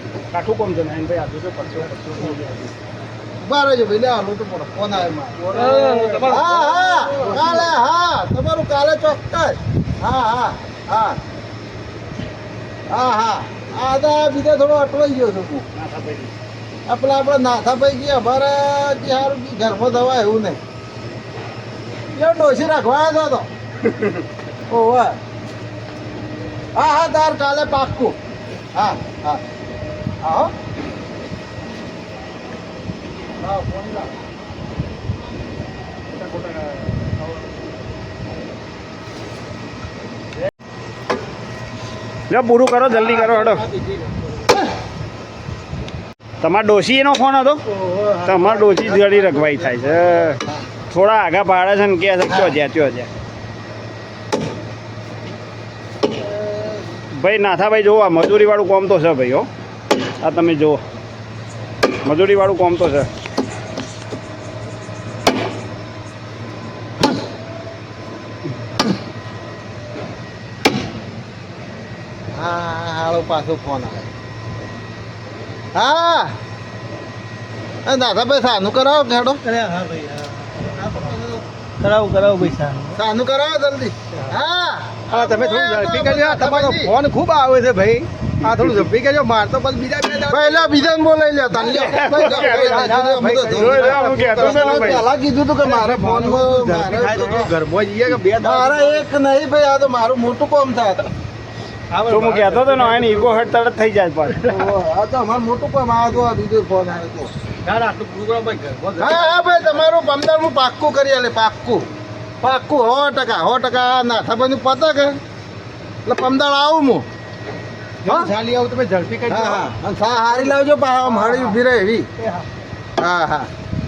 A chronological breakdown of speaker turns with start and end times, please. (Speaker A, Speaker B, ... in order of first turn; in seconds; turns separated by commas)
Speaker A: 0.3-2.7, Speaker B: 3.4-11.2, Speaker C: 5.5-7.7, Speaker A: 5.8-6.2, Speaker B: 12.9-15.7, Speaker A: 15.7-16.3, Speaker B: 16.9-20.6, Speaker B: 22.1-23.5, Speaker A: 23.8-24.2, Speaker B: 24.7-25.2, Speaker B: 26.7-28.1, Speaker B: 28.7-29.4, Speaker B: 30.2-30.5, Speaker B: 33.4-34.1, Speaker A: 36.1-37.2, Speaker A: 42.3-43.6, Speaker C: 43.0-44.4, Speaker A: 46.4-47.6, Speaker C: 47.7-50.4, Speaker A: 48.2-53.1, Speaker B: 56.1-56.8, Speaker A: 57.1-59.5, Speaker A: 60.2-60.8, Speaker A: 62.0-63.1, Speaker B: 72.3-74.1, Speaker B: 75.7-76.3, Speaker B: 77.8-79.4, Speaker C: 79.4-81.1, Speaker B: 80.6-81.4, Speaker C: 81.8-83.0, Speaker B: 83.0-86.9, Speaker C: 85.1-90.9, Speaker B: 90.3-97.5, Speaker C: 91.5-95.0, Speaker A: 91.7-95.0, Speaker C: 95.6-99.1, Speaker B: 98.4-101.1, Speaker C: 101.9-103.5, Speaker A: 102.1-104.5, Speaker B: 104.5-107.3, Speaker C: 107.6-109.8, Speaker B: 109.0-111.8, Speaker B: 112.4-115.2, Speaker B: 116.0-117.0, Speaker C: 118.0-119.7, Speaker B: 118.0-118.3, Speaker B: 119.3-122.1, Speaker C: 121.0-121.6, Speaker C: 122.2-122.5, Speaker B: 123.0-123.5